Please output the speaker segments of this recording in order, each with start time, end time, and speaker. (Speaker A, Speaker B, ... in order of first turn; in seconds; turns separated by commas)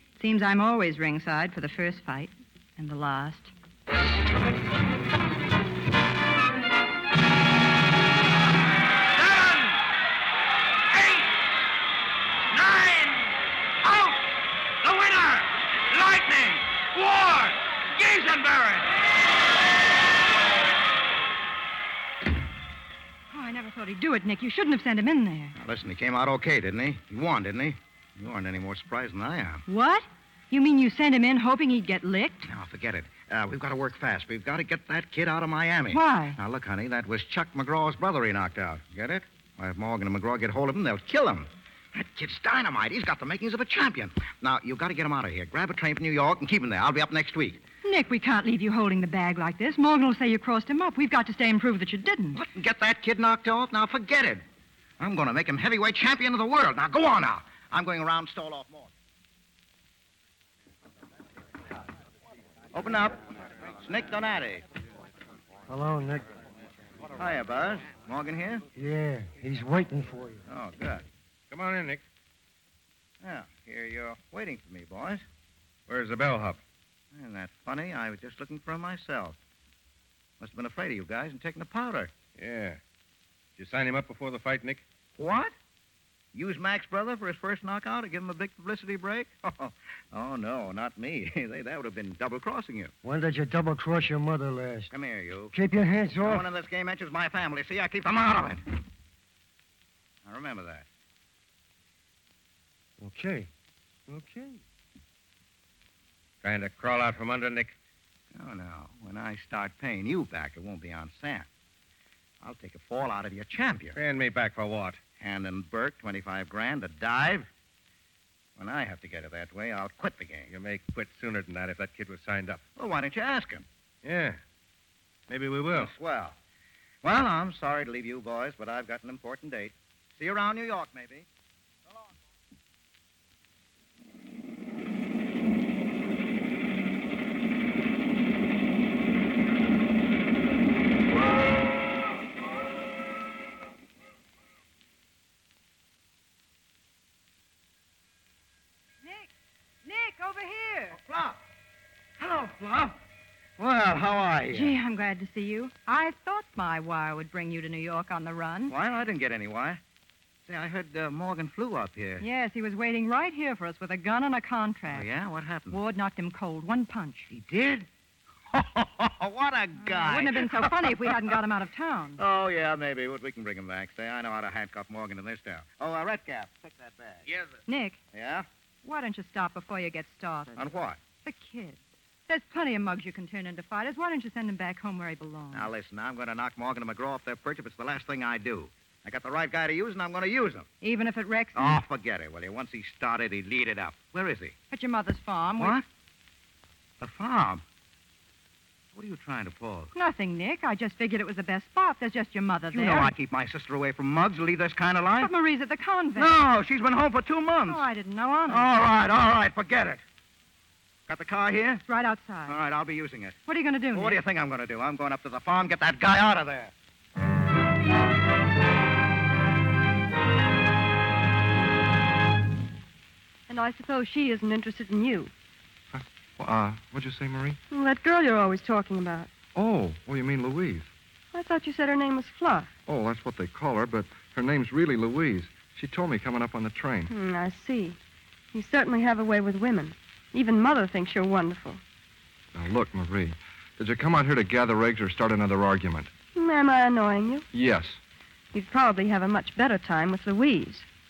Speaker A: 0.2-3.5, Speaker B: 9.2-9.8, Speaker B: 10.9-11.3, Speaker B: 12.5-13.3, Speaker B: 13.8-14.2, Speaker B: 14.8-18.9, Speaker A: 23.3-25.5, Speaker C: 25.6-29.6, Speaker A: 29.7-32.5, Speaker C: 32.5-47.6, Speaker A: 35.9-36.4, Speaker A: 47.8-52.4, Speaker C: 52.3-54.4, Speaker C: 55.0-58.9, Speaker C: 62.7-63.2, Speaker C: 63.8-64.6, Speaker D: 65.7-66.3, Speaker C: 67.2-68.6, Speaker D: 68.7-70.4, Speaker C: 70.5-71.1, Speaker E: 71.5-72.0, Speaker C: 73.2-75.2, Speaker E: 75.9-76.6, Speaker C: 77.1-79.4, Speaker C: 80.4-82.1, Speaker E: 82.4-82.8, Speaker E: 83.6-84.8, Speaker C: 85.2-85.5, Speaker C: 86.3-92.9, Speaker D: 93.0-94.9, Speaker C: 94.9-95.5, Speaker D: 95.5-96.5, Speaker C: 96.2-98.6, Speaker C: 100.3-100.9, Speaker D: 103.0-103.5, Speaker D: 104.1-104.6, Speaker E: 106.4-107.7, Speaker C: 108.3-111.5, Speaker C: 112.4-114.0, Speaker E: 113.9-115.0, Speaker C: 115.2-117.5, Speaker C: 118.6-120.5, Speaker E: 120.5-122.6, Speaker C: 122.8-123.7, Speaker E: 124.0-124.4, Speaker E: 125.3-125.9, Speaker C: 125.8-126.4, Speaker C: 127.0-131.3, Speaker A: 149.0-149.3, Speaker A: 149.8-151.0, Speaker C: 150.9-151.4, Speaker C: 152.2-152.9, Speaker C: 153.6-154.7, Speaker A: 154.5-158.7, Speaker C: 158.7-159.8, Speaker C: 160.5-162.2, Speaker A: 162.2-165.1, Speaker C: 164.9-165.8, Speaker A: 165.7-167.3, Speaker C: 167.3-167.9, Speaker C: 168.5-171.1, Speaker A: 169.8-172.2, Speaker C: 172.2-177.2, Speaker A: 177.7-178.0, Speaker C: 178.1-178.5, Speaker A: 178.8-180.7, Speaker C: 180.6-181.0, Speaker A: 181.2-185.7, Speaker C: 185.5-190.7, Speaker A: 190.8-191.8, Speaker C: 191.6-194.6, Speaker A: 194.7-195.8, Speaker C: 195.6-195.8, Speaker C: 197.0-197.6, Speaker C: 198.9-199.9, Speaker A: 199.9-203.1, Speaker C: 202.7-205.3, Speaker A: 205.2-206.3, Speaker C: 206.2-207.8, Speaker A: 207.7-208.6, Speaker C: 208.5-210.0, Speaker C: 211.1-211.8, Speaker A: 211.9-212.6, Speaker C: 212.5-213.4, Speaker A: 213.5-214.2, Speaker C: 213.9-216.7, Speaker F: 223.5-225.3, Speaker G: 225.9-227.6, Speaker F: 227.7-229.3, Speaker G: 229.6-230.9, Speaker F: 231.3-232.7, Speaker G: 232.9-237.1, Speaker F: 237.1-238.0, Speaker F: 238.5-241.8, Speaker G: 242.5-246.1, Speaker F: 246.3-247.5, Speaker G: 247.5-248.0, Speaker F: 248.5-250.9